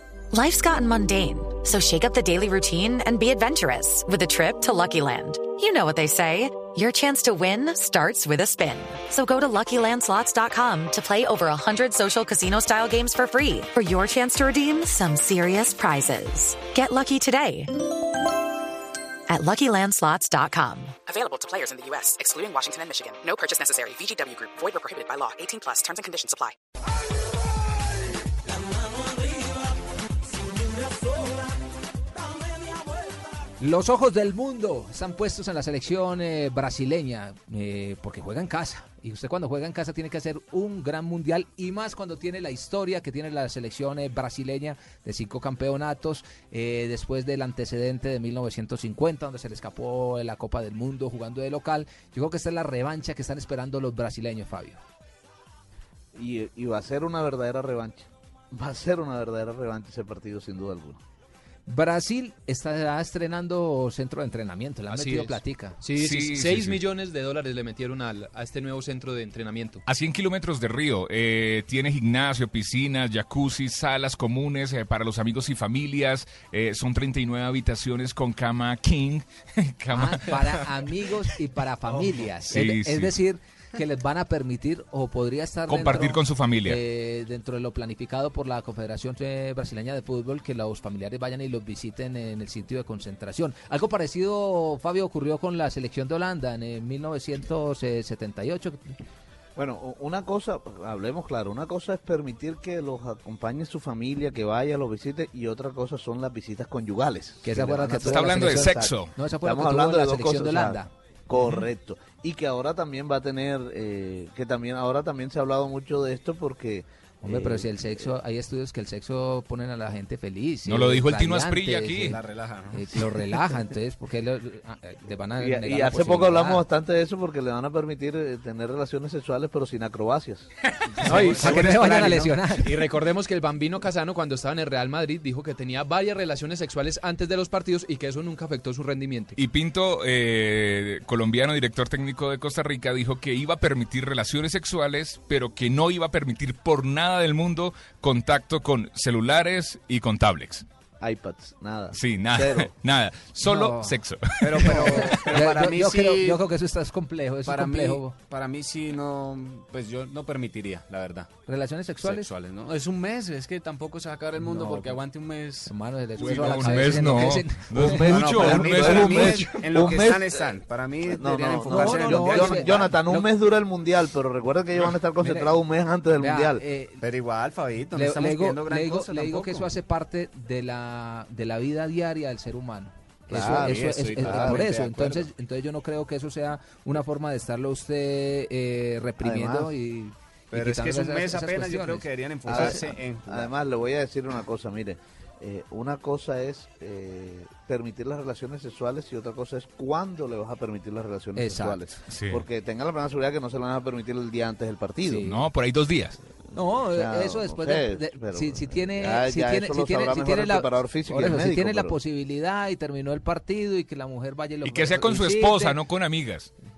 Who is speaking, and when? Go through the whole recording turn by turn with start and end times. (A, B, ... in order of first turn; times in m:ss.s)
0:00.3-0:17.7 A
0:19.3-0:21.0 A
0:21.0-0:26.6 B
0:33.6-0:54.8 C
0:56.1-1:01.0 D
1:01.6-1:05.8 C
1:04.9-1:09.8 E
1:06.0-1:06.8 F
1:09.8-1:20.7 F
1:19.9-1:38.9 C
1:22.4-1:23.1 F
1:25.7-1:26.8 F
1:39.6-1:58.1 D
1:47.4-1:50.9 C
1:48.0-1:49.1 F
1:57.2-2:02.2 C
2:00.6-2:02.2 F
2:02.1-2:03.0 G
2:02.7-2:06.6 C
2:05.4-2:10.5 D
2:11.0-2:12.4 G
2:11.0-2:12.8 C
2:11.1-2:11.9 E
2:12.5-2:19.4 E
2:19.4-2:30.6 F
2:31.0-2:32.7 D
2:31.9-2:35.1 F
2:33.4-2:34.0 C
2:34.4-2:36.4 G
2:34.6-2:38.1 C
2:37.4-2:41.3 G
2:41.4-2:42.3 C
2:42.0-2:47.2 G
2:45.6-2:48.6 C
2:46.2-2:49.6 F
2:47.9-2:56.6 D
2:48.0-2:52.9 G
2:51.6-2:53.3 C
2:55.2-2:55.6 C
2:56.2-2:57.0 C
2:57.0-2:59.7 G
2:57.9-3:12.8 C
3:03.3-3:04.7 D
3:03.4-3:05.3 G
3:09.2-3:09.7 D
3:10.5-3:13.5 G
3:12.4-3:25.3 D
3:21.4-3:21.8 C
3:22.1-3:22.4 F
3:25.0-3:25.4 C
3:25.2-3:26.2 F
3:26.5-3:35.8 C
3:26.6-3:32.0 D
3:34.6-3:36.5 F